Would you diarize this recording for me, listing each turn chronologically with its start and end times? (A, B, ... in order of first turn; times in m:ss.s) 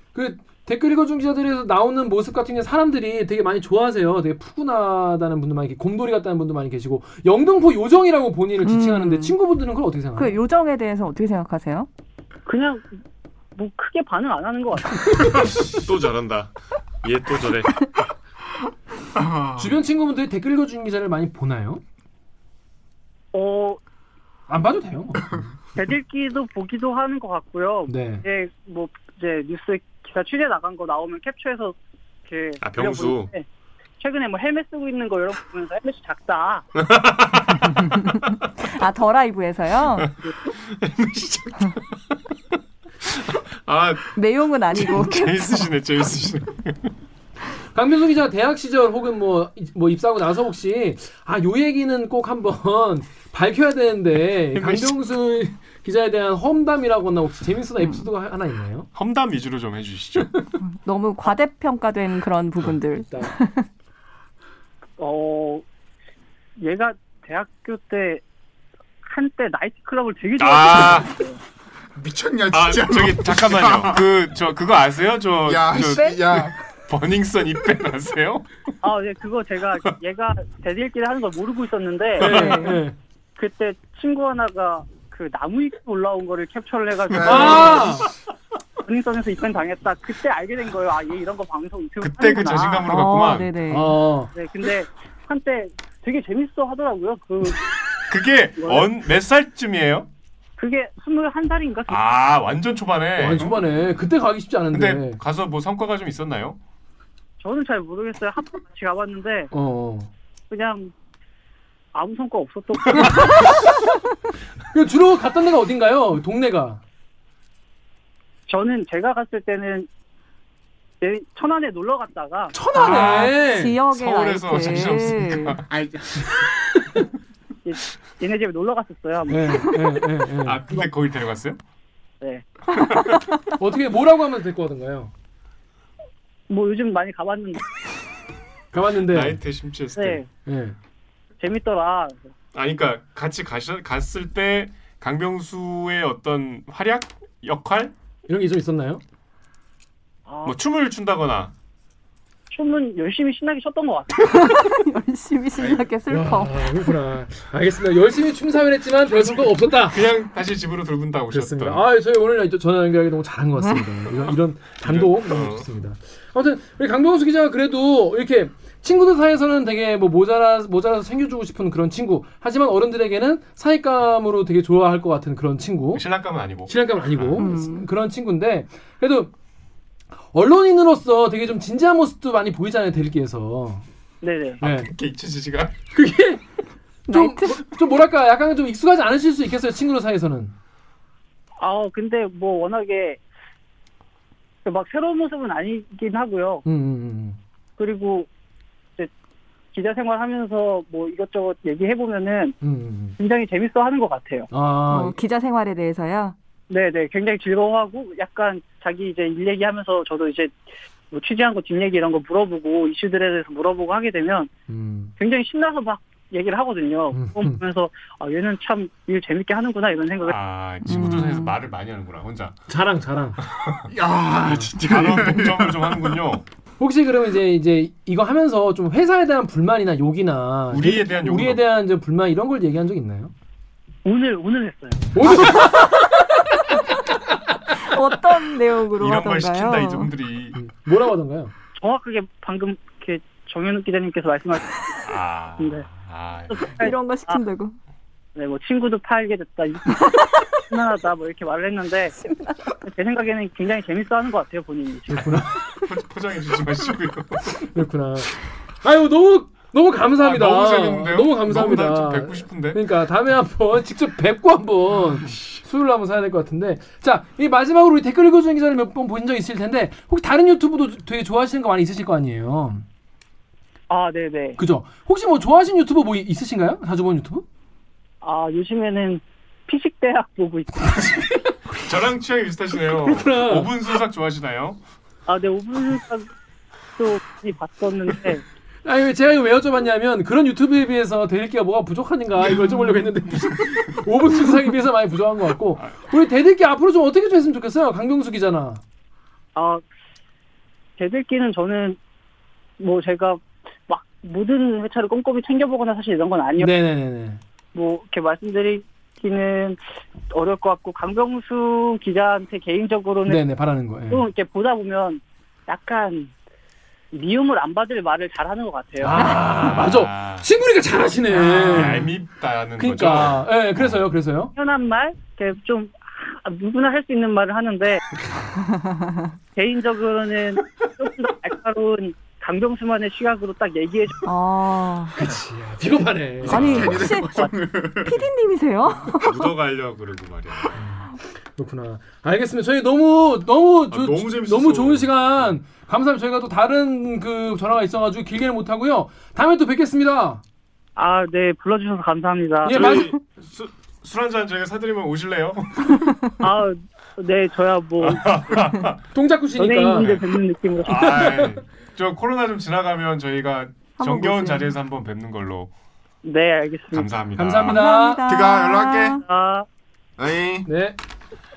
0:00.1-0:10.4 A
0:08.6-0:09.4 B
0:10.2-0:11.9 B
0:12.5-0:12.8 C
0:13.5-0:15.3 C
0:15.6-0:16.5 D
0:17.0-0:17.9 D
0:19.1-0:19.8 E
0:19.6-0:21.8 A
0:23.3-0:23.8 C
0:24.5-0:25.5 A
0:25.8-0:33.4 C
0:27.9-0:28.2 A
0:32.6-0:33.3 D
0:34.0-0:36.7 C
0:36.8-0:38.2 D
0:38.0-0:40.1 B
0:40.0-0:41.8 D
0:43.1-0:44.1 D
0:44.1-0:45.7 B
0:44.7-0:46.9 D
0:47.7-0:58.9 A
0:54.5-0:55.0 D
0:57.8-0:58.1 B
0:58.9-1:00.5 D
1:00.6-1:03.7 B
1:03.1-1:03.3 A
1:05.0-1:05.6 C
1:06.6-1:08.2 C
1:09.0-1:11.4 C
1:10.4-1:11.1 D
1:12.0-1:14.1 E
1:12.5-1:18.5 D
1:15.4-1:16.5 E
1:15.9-1:16.2 B
1:18.8-1:22.6 C
1:22.2-1:23.0 A
1:22.2-1:22.8 B
1:23.4-1:27.9 C
1:27.2-1:28.1 A
1:28.8-1:33.0 C
1:32.0-1:33.6 D
1:32.8-1:34.0 B
1:33.7-1:34.3 A
1:34.3-1:37.7 C
1:38.1-1:40.1 D
1:38.6-1:38.9 C
1:40.6-1:42.0 C
1:41.9-1:43.6 D
1:43.2-1:45.2 A
1:44.7-1:46.6 D
1:47.4-1:49.5 C
1:49.5-1:50.1 A
1:50.5-1:50.9 C
1:51.9-1:53.4 C
1:54.7-1:56.8 A
1:58.5-1:59.9 C
2:01.0-2:02.6 C
2:02.5-2:03.8 A
2:02.7-2:05.6 B
2:02.7-2:05.6 D
2:05.6-2:06.2 E
2:07.6-2:09.8 C
2:09.3-2:10.6 A
2:10.4-2:11.6 D
2:12.8-2:13.2 D
2:13.6-2:15.1 A
2:16.5-2:17.6 C
2:18.7-2:19.4 A
2:19.1-2:20.2 D
2:19.9-2:20.3 C
2:20.4-2:20.8 A
2:21.4-2:22.3 C
2:22.5-2:27.9 D
2:28.3-2:29.0 A
2:30.3-2:30.6 C
2:30.4-2:31.5 D
2:32.5-2:34.5 C
2:34.3-2:36.9 B
2:36.1-2:40.0 A
2:39.1-2:41.8 D
2:41.3-2:56.0 A
2:44.7-2:45.7 D
2:55.9-2:57.6 D
2:56.6-2:59.3 A
2:57.4-2:57.9 B
3:00.3-3:03.8 A
3:04.2-3:04.6 C
3:04.6-3:05.8 D
3:04.6-3:04.9 A
3:05.9-3:06.4 A
3:07.1-3:07.6 B
3:07.1-3:10.5 A
3:11.6-3:13.2 C
3:14.6-3:16.6 C
3:16.6-3:17.4 A
3:17.8-3:18.3 C
3:19.7-3:22.6 C
3:22.6-3:23.2 A
3:23.2-3:24.5 C
3:24.5-3:25.2 A
3:24.9-3:26.4 B
3:26.7-3:30.6 C
3:31.1-3:34.5 C
3:34.7-3:35.1 A
3:35.2-3:40.4 C
3:37.1-3:37.6 A
3:40.2-3:42.6 D
3:40.8-3:41.5 B
3:42.7-3:43.4 A
3:43.6-3:43.8 D
3:43.9-3:46.2 E
3:44.7-3:46.4 D
3:46.8-3:53.3 A
3:50.7-3:51.6 D
3:54.0-3:55.1 C
3:55.1-3:56.2 A
3:57.8-4:00.1 B
3:58.9-4:00.6 D
4:00.5-4:01.5 A
4:01.8-4:04.9 C
4:05.0-4:06.7 D
4:05.6-4:05.9 C
4:06.5-4:07.4 C
4:06.8-4:07.7 B
4:08.4-4:12.1 C
4:12.2-4:12.7 B
4:12.8-4:15.4 C
4:15.1-4:15.6 A
4:15.4-4:17.7 D
4:17.7-4:32.8 A
4:20.2-4:22.8 D
4:33.9-4:34.6 C
4:34.6-4:37.4 A
4:38.2-4:41.3 C
4:41.7-4:44.8 D
4:43.0-4:43.7 A
4:45.3-4:46.3 C
4:47.0-4:48.4 C
4:48.8-4:58.8 A
4:59.5-4:59.8 C
5:01.0-5:02.0 C
5:02.8-5:06.7 C
5:06.6-5:07.4 A
5:07.7-5:13.4 C
5:13.2-5:14.2 A
5:14.1-5:16.3 C
5:17.1-5:19.2 C
5:19.0-5:22.1 A
5:19.2-5:20.5 D
5:21.4-5:24.0 D
5:22.8-5:24.5 A
5:24.5-5:28.0 C
5:29.5-5:34.2 C
5:34.2-5:35.2 B
5:35.2-5:36.9 A
5:36.4-5:38.2 E
5:36.4-5:37.1 D
5:36.5-5:39.5 B
5:39.0-5:40.7 D
5:40.7-5:50.4 A
5:43.9-5:45.6 D
5:51.0-5:52.9 C
5:52.6-5:53.1 A
5:52.6-5:56.0 D
5:56.4-5:58.7 C
5:58.0-5:59.0 D
5:59.1-6:00.1 A
5:59.6-6:01.3 C
6:00.0-6:00.3 D
6:00.8-6:05.7 D
6:00.9-6:01.6 A
6:04.0-6:04.7 B
6:06.2-6:07.1 C
6:06.9-6:07.9 D
6:07.4-6:08.2 A
6:07.7-6:09.2 B
6:08.2-6:09.2 E
6:09.2-6:09.6 C
6:10.2-6:10.7 E
6:10.6-6:11.0 A